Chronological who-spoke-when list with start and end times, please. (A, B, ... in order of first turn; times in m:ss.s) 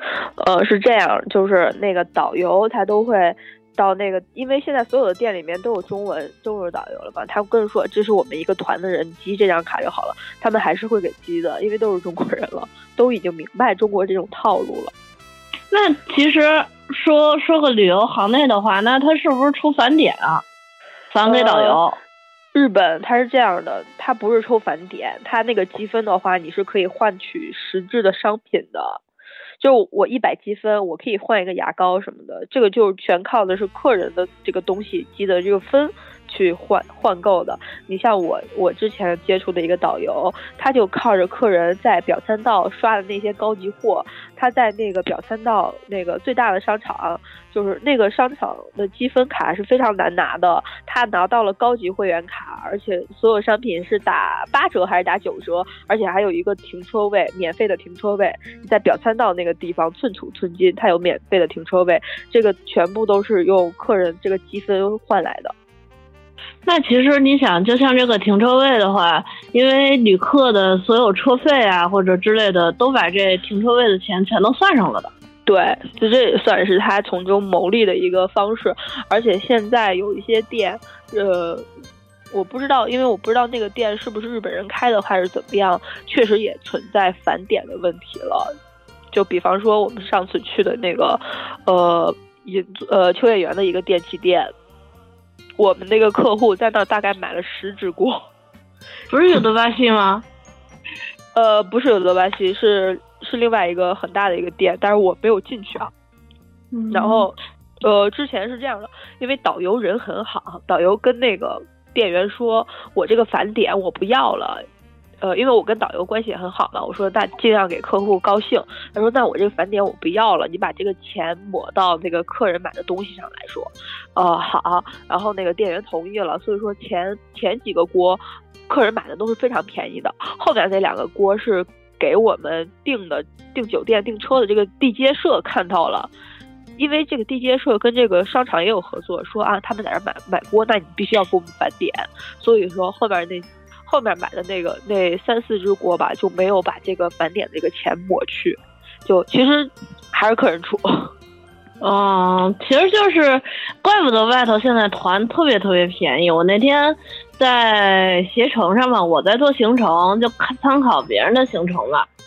0:00.4-0:14.9 A
0:15.7-0:20.4 B
0:21.1-0:22.0 B
0:21.2-0:21.8 A
0:22.5-0:29.0 A
0:29.6-1:05.5 A
1:06.7-1:15.1 B
1:15.5-1:21.7 A
1:22.3-1:28.5 A
1:29.1-1:34.5 A
1:35.6-1:38.2 A
1:39.1-1:40.3 B
1:41.3-1:45.9 A
1:46.7-1:47.3 B
1:46.9-1:54.7 A
1:55.2-2:16.1 A
2:16.8-2:31.1 A
2:31.8-2:42.1 B